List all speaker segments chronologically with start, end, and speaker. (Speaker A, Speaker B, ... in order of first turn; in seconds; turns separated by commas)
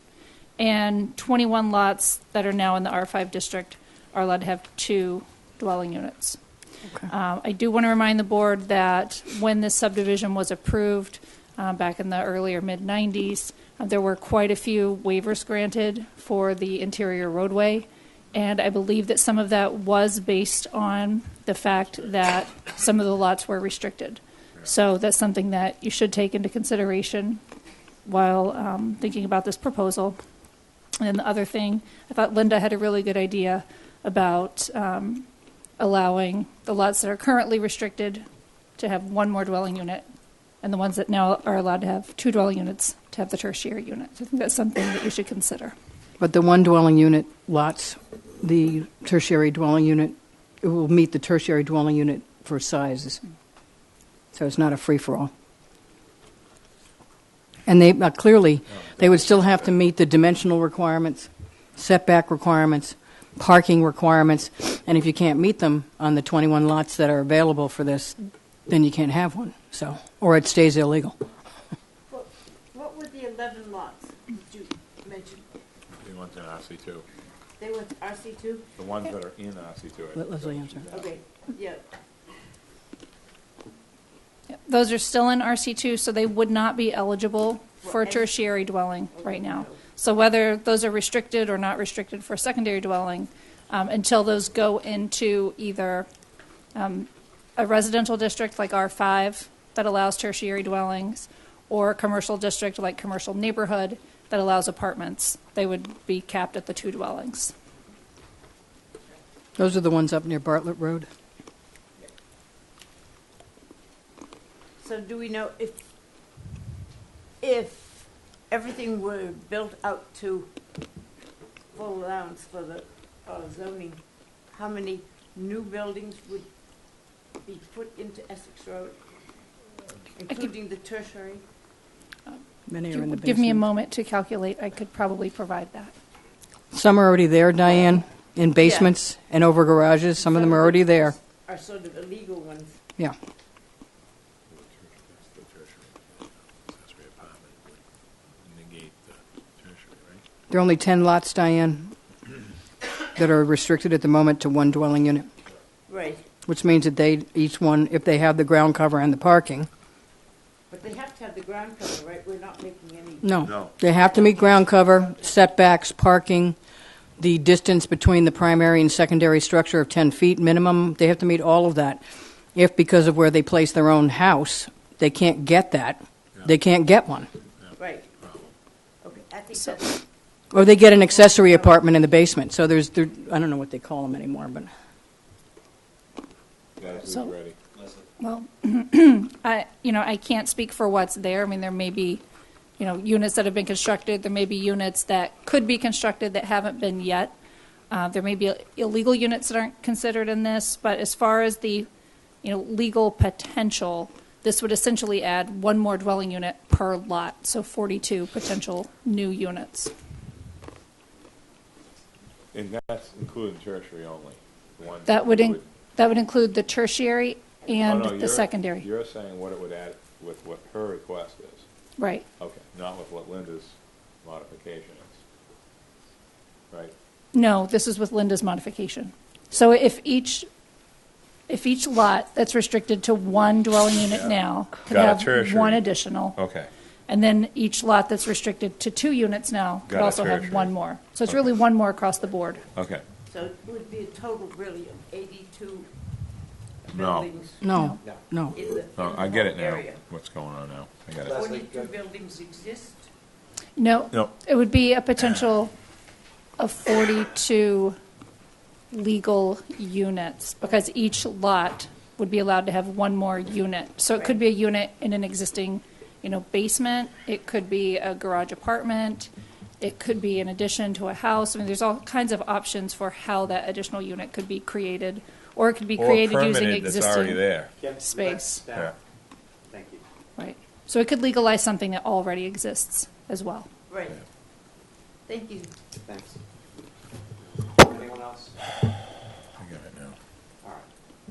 Speaker A: 0.6-6.4, Speaker A: 7.1-27.4, Speaker A: 28.0-30.2, Speaker A: 31.0-35.3, Speaker A: 35.8-38.2, Speaker A: 38.8-40.0, Speaker A: 40.6-45.7, Speaker B: 46.2-53.2, Speaker B: 54.3-55.3, Speaker B: 57.6-71.2, Speaker C: 72.1-75.4, Speaker D: 76.0-77.0, Speaker C: 77.6-78.7, Speaker D: 78.8-81.2, Speaker B: 80.2-80.8, Speaker C: 80.9-81.8, Speaker A: 84.5-96.1, Speaker C: 87.8-88.4, Speaker C: 89.1-89.8, Speaker A: 96.7-107.5, Speaker B: 109.6-111.1, Speaker C: 114.8-115.8, Speaker C: 117.4-120.5, Speaker C: 121.7-126.5, Speaker C: 127.4-129.0, Speaker C: 130.1-131.4, Speaker A: 132.3-135.9, Speaker B: 132.7-133.6, Speaker B: 136.7-141.1, Speaker C: 138.6-138.9, Speaker C: 140.2-142.8, Speaker D: 144.5-150.2, Speaker B: 150.5-151.9, Speaker B: 153.1-155.3, Speaker C: 155.9-156.2, Speaker B: 156.4-159.7, Speaker C: 160.7-163.5, Speaker B: 163.2-166.6, Speaker D: 163.4-163.7, Speaker C: 164.2-165.2, Speaker B: 167.2-172.0, Speaker B: 172.5-177.3, Speaker D: 177.6-178.5, Speaker C: 177.8-178.1, Speaker C: 179.0-180.0, Speaker B: 180.5-184.7, Speaker D: 186.8-187.6, Speaker A: 188.2-192.2, Speaker A: 192.8-197.3, Speaker A: 197.9-201.9, Speaker A: 202.4-209.9, Speaker D: 212.5-215.7, Speaker A: 215.1-218.8, Speaker D: 217.8-221.6, Speaker A: 222.0-222.2, Speaker D: 222.4-225.2, Speaker A: 227.3-230.5, Speaker A: 231.5-236.4, Speaker D: 234.8-235.8, Speaker D: 236.3-236.7, Speaker A: 237.1-242.7, Speaker D: 239.9-240.7, Speaker D: 242.7-243.0, Speaker C: 243.3-245.9, Speaker C: 246.8-247.6, Speaker D: 246.9-247.3, Speaker B: 247.6-248.5, Speaker C: 248.5-250.0, Speaker D: 248.9-251.4, Speaker E: 251.2-251.9, Speaker C: 251.3-253.1, Speaker A: 253.8-255.7, Speaker A: 256.6-258.0, Speaker A: 258.9-278.6, Speaker D: 276.0-277.7, Speaker E: 277.8-279.0, Speaker E: 279.7-280.0, Speaker A: 280.4-283.7, Speaker C: 283.9-284.2, Speaker C: 285.3-285.7, Speaker E: 285.9-286.4, Speaker E: 287.4-288.5, Speaker D: 289.6-290.1